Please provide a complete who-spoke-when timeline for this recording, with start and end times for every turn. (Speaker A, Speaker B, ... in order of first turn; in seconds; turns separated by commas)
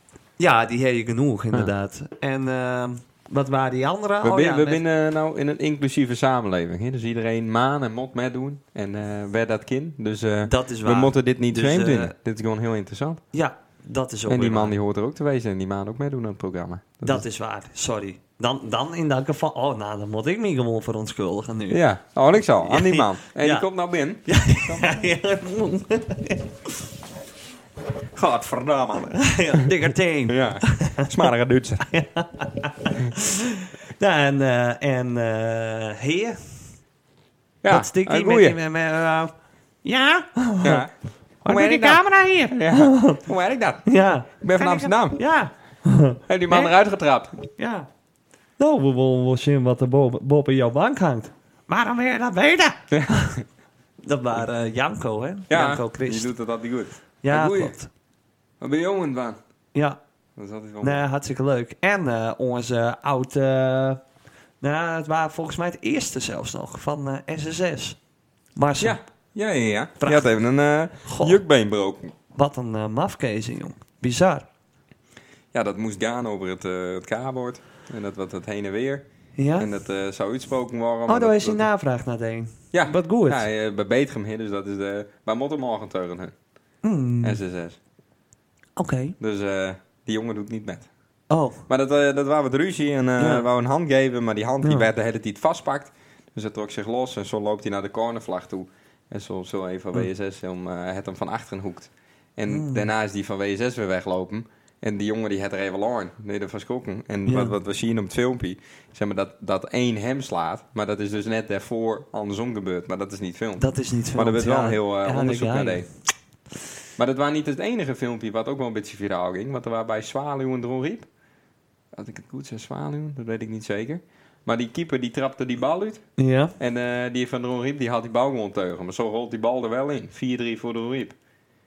Speaker A: 0.4-4.8, Speaker B: 4.2-13.2, Speaker A: 10.4-12.1, Speaker A: 13.3-14.7, Speaker B: 14.3-17.2, Speaker A: 17.0-21.8, Speaker B: 21.7-24.9, Speaker A: 22.6-23.7, Speaker A: 24.2-26.7, Speaker B: 28.1-29.6, Speaker A: 29.1-31.2, Speaker B: 30.3-31.9, Speaker A: 31.9-36.7, Speaker B: 37.6-38.6, Speaker A: 37.7-39.3, Speaker A: 39.8-40.9, Speaker B: 40.6-40.9, Speaker A: 41.4-43.2, Speaker B: 41.4-45.2, Speaker A: 43.9-46.7, Speaker B: 46.3-47.4, Speaker A: 47.6-47.9, Speaker A: 48.6-53.4, Speaker B: 52.9-53.1, Speaker A: 54.0-56.3, Speaker B: 55.5-57.7, Speaker A: 57.2-57.9, Speaker B: 58.6-59.4, Speaker A: 59.7-60.0, Speaker B: 60.4-61.0, Speaker A: 60.8-64.0, Speaker A: 64.6-68.0, Speaker A: 68.5-69.0, Speaker B: 68.8-72.1, Speaker A: 70.0-70.3, Speaker A: 71.0-71.4, Speaker A: 72.3-74.5, Speaker B: 75.5-81.7, Speaker A: 79.4-79.7, Speaker A: 81.1-83.5, Speaker B: 82.7-86.3, Speaker A: 86.8-87.4, Speaker B: 87.2-87.8, Speaker A: 88.8-89.2, Speaker B: 89.2-90.9, Speaker A: 91.3-91.6, Speaker B: 91.7-115.9, Speaker A: 93.2-93.5, Speaker A: 94.6-94.9, Speaker A: 102.5-102.9, Speaker A: 107.2-107.5, Speaker A: 113.6-115.8, Speaker B: 117.0-121.1, Speaker B: 121.9-126.0, Speaker A: 126.2-126.5, Speaker B: 126.6-131.2